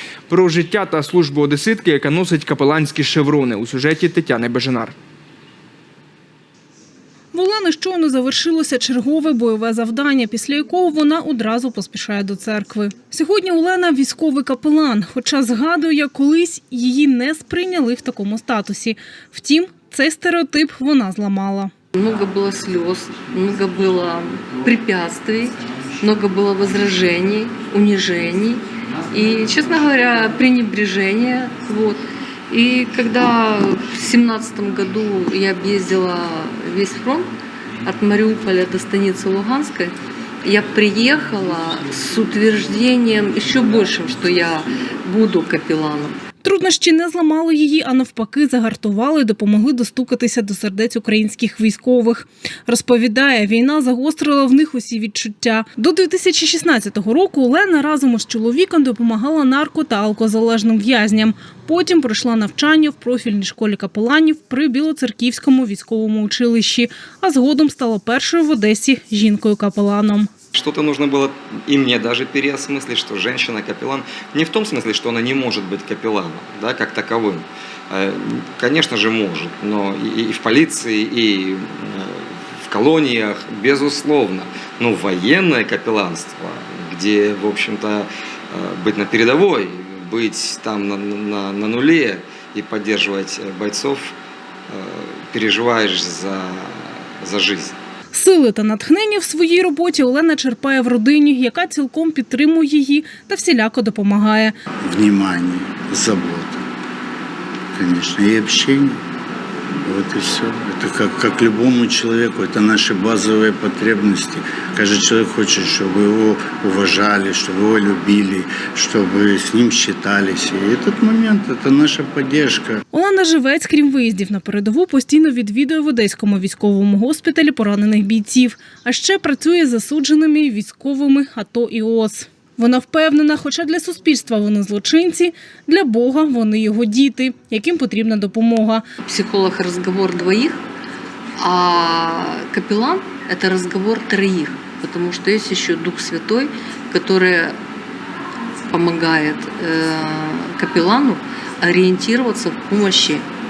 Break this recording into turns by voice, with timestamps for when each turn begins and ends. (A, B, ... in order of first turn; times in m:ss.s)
0:00.3-0:04.9 A
0:07.3-0:21.7 B
0:22.0-0:37.3 C
0:37.8-0:46.2 C
0:46.4-1:10.3 B
1:10.5-1:34.2 D
1:34.7-1:37.8 D
1:38.1-1:44.6 B
1:44.8-1:46.6 E
1:47.8-1:49.0 E
1:49.8-2:02.8 E
2:02.9-2:18.8 B
2:19.0-2:20.6 C
2:21.4-2:27.6 C
2:28.7-2:33.3 C